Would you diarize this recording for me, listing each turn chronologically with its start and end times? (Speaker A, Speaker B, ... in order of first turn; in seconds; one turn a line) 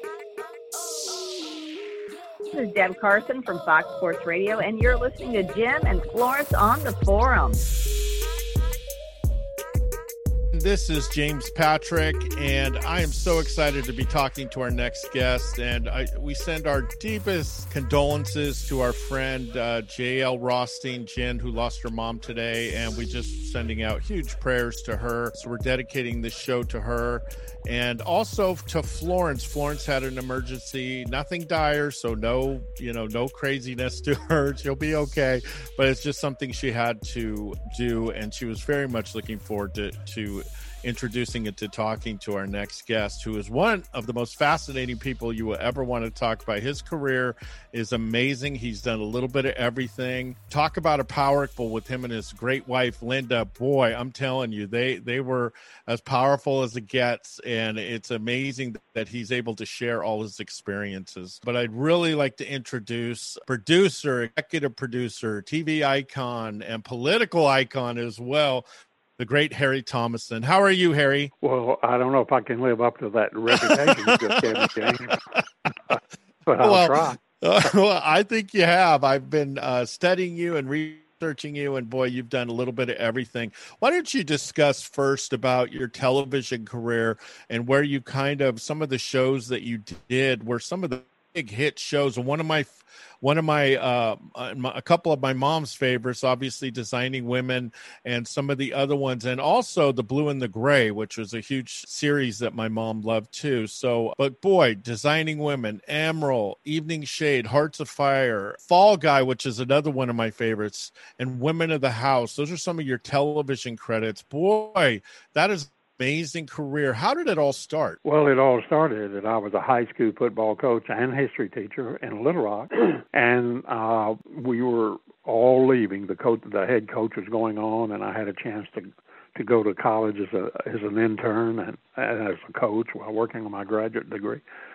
Speaker A: 2.5-7.6
Speaker B: 10.5-68.7
Speaker B: 69.2-71.3
Speaker C: 71.4-75.2
Speaker B: 73.5-75.1
Speaker C: 75.9-77.2
Speaker B: 76.6-118.0
Speaker C: 118.0-134.4